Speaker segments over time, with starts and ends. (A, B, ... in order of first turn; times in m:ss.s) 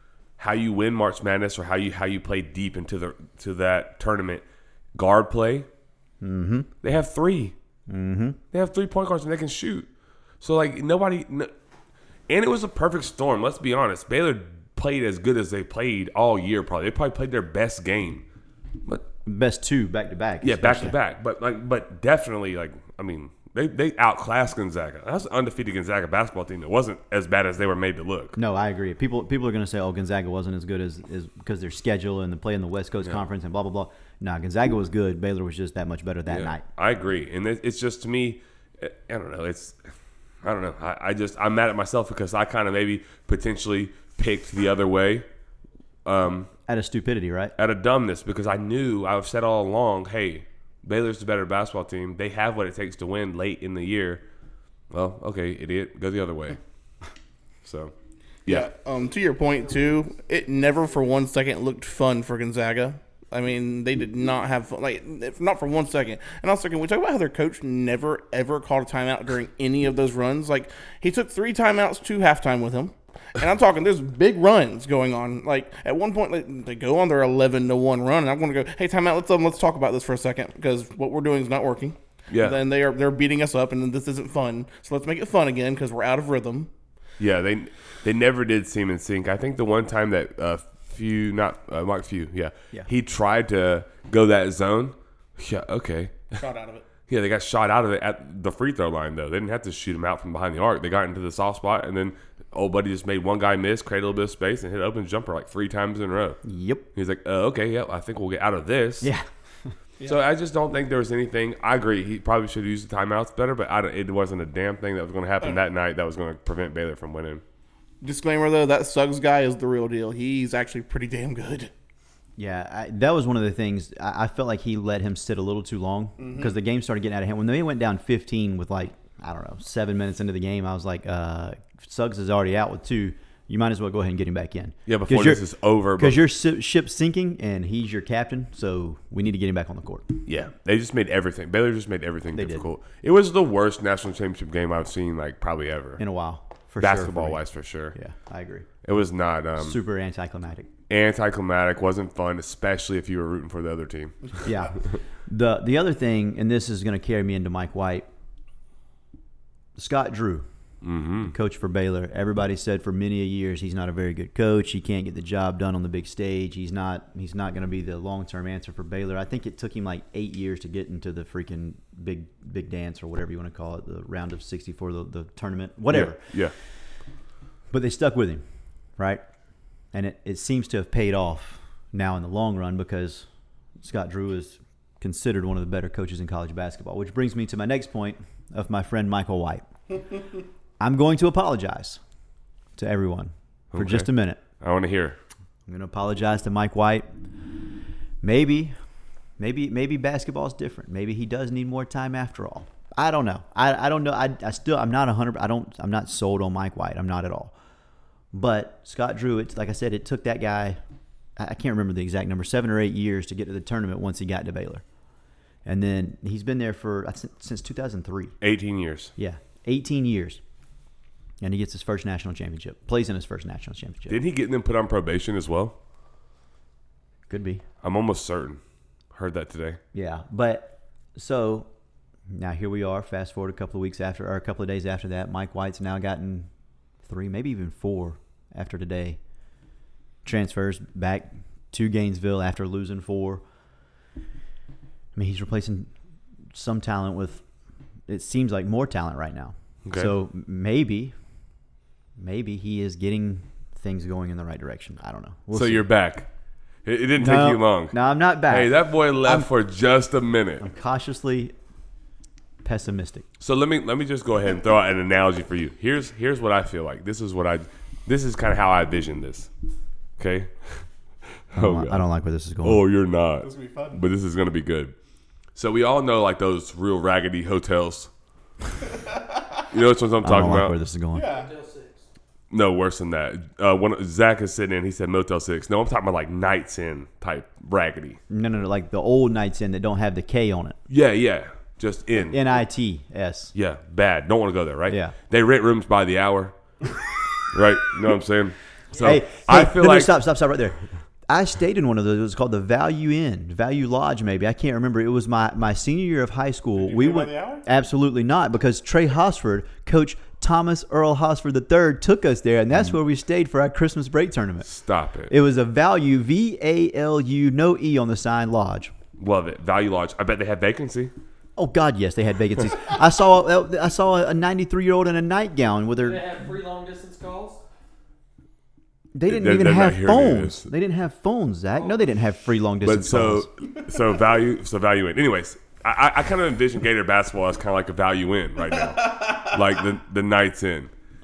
0:00.4-0:05.7 A
0:06.2-0:06.7 B
0:06.8-0:07.6 A
0:07.9-0:08.4 B
0:08.5-0:09.9 A
0:10.4-0:11.5 A
0:12.3-0:18.2 A
0:19.3-0:20.9 B
0:20.4-0:28.4 A
0:28.4-0:36.6 B
0:36.3-0:39.8 A
0:40.4-0:45.3 A
0:46.0-0:46.5 A
0:46.7-0:47.5 B
0:47.6-0:54.2 A
0:54.9-0:56.6 A
0:57.6-0:57.9 A
0:58.5-1:26.7 C
1:22.3-1:22.6 A
1:27.2-1:36.4 A
1:36.4-1:36.9 C
1:37.1-1:46.4 A
1:46.4-1:46.8 B
1:47.0-1:49.1 A
1:49.0-1:49.7 B
1:50.0-1:57.4 A
1:58.0-2:01.7 C
2:02.4-2:15.4 B
2:06.2-2:06.5 C
2:14.9-2:16.2 A
2:16.0-2:20.1 B
2:20.2-2:26.0 A
2:22.3-2:22.7 B
2:26.0-2:27.4 B
2:26.8-2:28.0 A
2:27.9-2:28.7 B
2:28.8-2:29.8 A
2:29.6-2:30.7 B
2:30.9-2:35.0 A
2:34.4-2:38.1 B
2:39.8-2:40.5 B
2:40.8-2:41.3 A
2:41.2-2:56.3 B
2:55.9-2:56.5 A
2:57.7-2:58.4 B
2:59.0-2:59.2 B
2:59.9-3:03.3 B
3:03.8-3:09.7 B
3:10.8-3:12.0 B
3:12.8-3:14.4 B
3:13.7-3:15.2 A
3:15.7-3:17.1 B
3:18.2-3:18.8 B
3:19.4-3:27.5 B
3:28.3-3:30.8 B
3:31.4-3:34.8 B
3:35.6-3:38.4 B
3:38.4-3:39.1 A
3:39.2-3:40.4 B
3:41.4-3:44.2 B
3:44.1-3:45.8 A
3:47.3-3:47.6 B
3:47.8-3:48.6 A
3:49.1-3:49.8 A
3:49.9-3:51.7 B
3:52.3-3:56.5 B
3:57.0-3:59.2 B
4:00.2-4:03.4 B
4:05.2-4:05.9 B
4:06.5-4:07.4 B
4:08.1-4:11.2 B
4:09.9-4:10.1 A
4:12.2-4:15.8 B
4:15.5-4:16.3 A
4:16.8-4:18.0 A
4:17.2-4:18.7 B
4:18.5-4:20.7 A
4:20.6-4:21.5 B
4:22.6-4:23.3 B
4:23.4-4:29.5 A
4:30.2-4:30.8 A
4:31.5-4:32.1 A
4:31.6-4:32.8 B
4:32.6-4:35.0 A
4:33.4-4:34.0 C
4:35.6-4:38.1 A
4:39.7-4:40.8 A
4:40.2-4:41.3 B
4:41.1-4:41.5 C
4:41.2-4:42.0 D
4:42.5-4:48.2 A
4:48.3-4:50.8 B
4:50.9-4:52.4 A
4:52.3-4:53.5 B
4:53.5-4:56.6 A
4:54.9-4:55.2 B
4:57.5-5:00.2 A
4:59.0-5:14.7 B
5:06.9-5:07.6 C
5:14.6-5:15.3 A
5:15.3-5:18.9 B
5:19.2-5:21.1 A
5:21.6-5:26.4 B
5:26.0-5:27.6 D
5:29.2-5:33.5 B
5:29.3-5:30.7 A
5:32.8-5:40.9 A